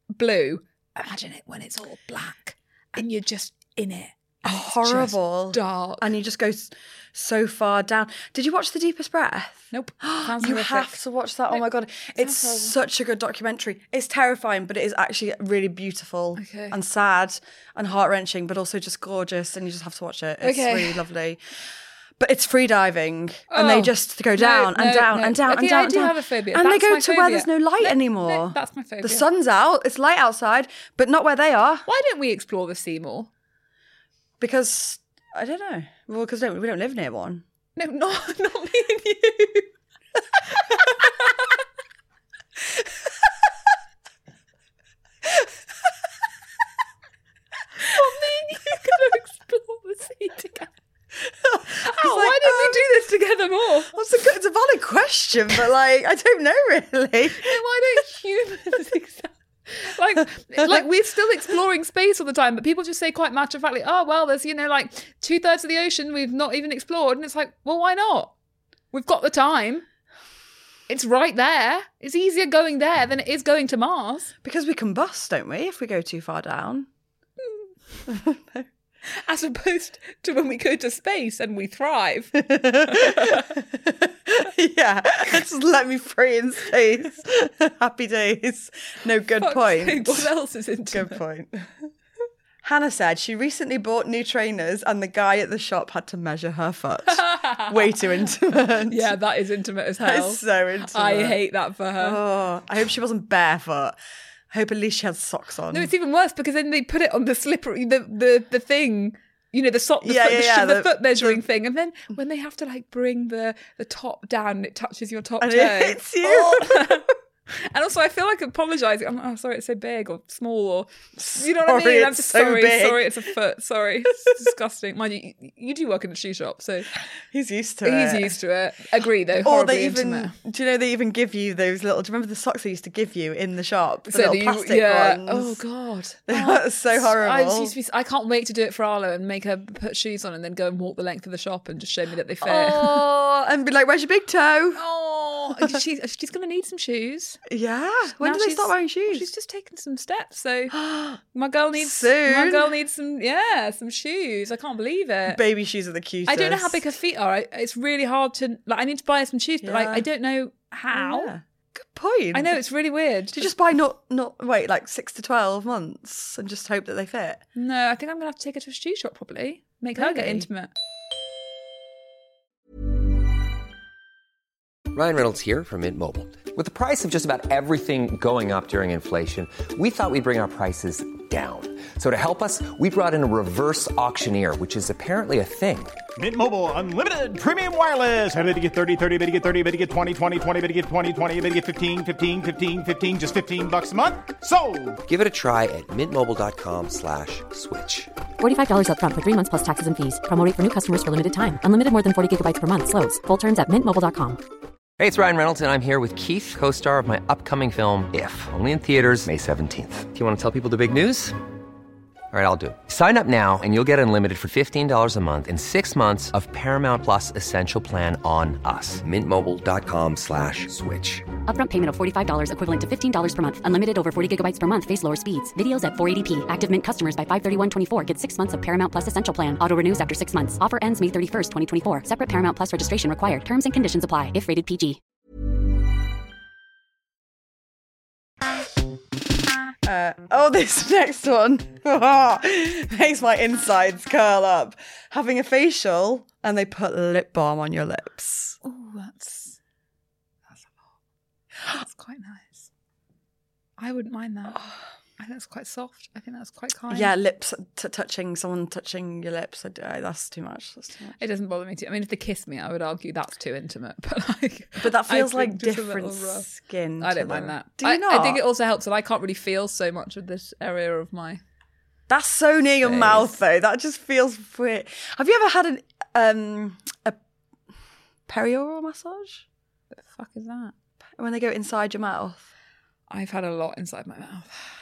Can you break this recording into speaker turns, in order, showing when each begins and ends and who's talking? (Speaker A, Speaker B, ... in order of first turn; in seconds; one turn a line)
Speaker A: 0.1-6.1
Speaker B: 4.4-21.4
Speaker A: 9.7-11.0
Speaker A: 12.2-12.8
Speaker A: 16.4-16.8
Speaker A: 20.4-21.0
Speaker B: 22.2-31.9
Speaker A: 23.5-29.3
Speaker A: 31.9-33.3
Speaker B: 34.4-37.4
Speaker A: 37.8-39.7
Speaker A: 40.6-41.5
Speaker A: 47.8-50.7
Speaker B: 51.4-52.9
Speaker A: 51.7-53.9
Speaker B: 53.9-57.6
Speaker A: 57.4-68.3
Speaker A: 68.9-69.8
Speaker A: 70.9-74.3
Speaker B: 74.4-76.9
Speaker B: 78.1-78.7
Speaker A: 79.2-83.5
Speaker B: 82.4-90.3
Speaker A: 89.4-91.2
Speaker B: 90.9-91.7
Speaker B: 92.6-99.1
Speaker A: 97.1-98.0
Speaker A: 98.9-102.2
Speaker B: 100.0-101.4
Speaker B: 102.0-104.0
Speaker B: 104.5-105.9
Speaker A: 105.7-126.9
Speaker B: 110.0-111.4
Speaker B: 115.4-117.1
Speaker B: 121.2-123.1
Speaker B: 127.3-128.3
Speaker A: 127.8-130.3
Speaker B: 129.4-135.6
Speaker A: 134.1-143.1
Speaker B: 136.3-137.7
Speaker B: 142.4-144.8
Speaker A: 144.8-147.4
Speaker B: 147.5-149.3
Speaker A: 148.2-150.8
Speaker B: 150.7-151.2
Speaker A: 151.3-155.4
Speaker B: 151.8-152.7
Speaker B: 155.3-156.9
Speaker A: 156.3-161.3
Speaker B: 159.6-160.1
Speaker B: 160.9-162.5
Speaker A: 162.3-163.5
Speaker B: 163.3-167.4
Speaker A: 167.6-170.7
Speaker B: 170.0-170.5
Speaker C: 174.9-186.0
Speaker D: 186.2-195.0
Speaker C: 195.1-198.1
Speaker E: 198.4-204.4
Speaker C: 205.0-211.4
Speaker C: 212.3-221.3
Speaker E: 221.5-235.0
Speaker B: 239.8-248.6
Speaker A: 248.6-249.6
Speaker A: 250.5-250.8
Speaker A: 251.7-252.7
Speaker A: 253.8-254.6
Speaker A: 255.2-257.1
Speaker B: 256.9-261.2
Speaker A: 261.2-266.5
Speaker B: 264.8-268.4
Speaker A: 267.0-271.4
Speaker B: 272.1-277.2
Speaker A: 272.8-273.4
Speaker B: 278.3-279.4
Speaker A: 279.9-280.7
Speaker B: 281.2-282.4
Speaker A: 283.1-284.6